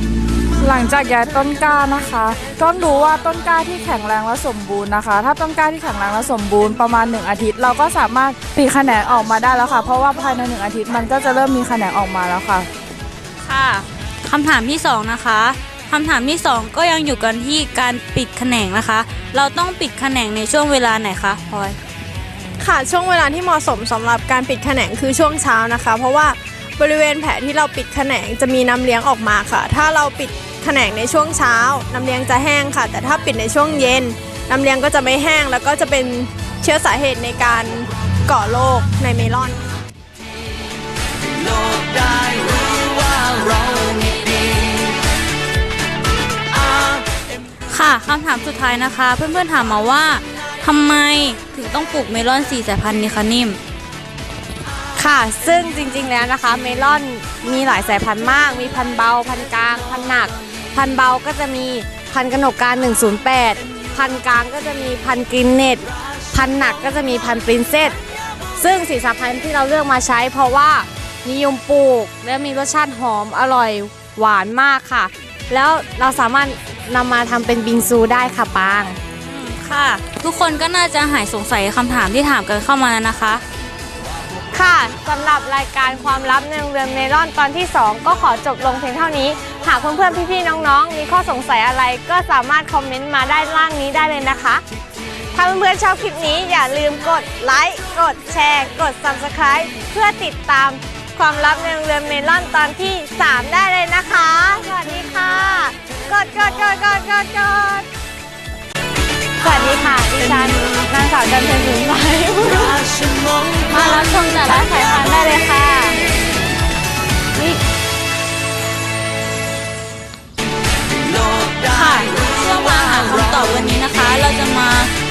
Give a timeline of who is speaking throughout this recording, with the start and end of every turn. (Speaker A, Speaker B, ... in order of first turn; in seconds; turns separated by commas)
Speaker A: 0.6-12.7, Speaker B: 13.4-21.8, Speaker C: 22.6-39.6, Speaker D: 41.4-44.9, Speaker D: 46.6-46.9, Speaker B: 47.7-53.6, Speaker E: 54.9-68.0, Speaker E: 68.6-79.0, Speaker B: 79.2-83.4, Speaker E: 84.5-94.6, Speaker E: 95.3-107.9, Speaker E: 109.4-112.8, Speaker D: 112.7-113.6, Speaker B: 113.7-116.0, Speaker B: 121.6-124.9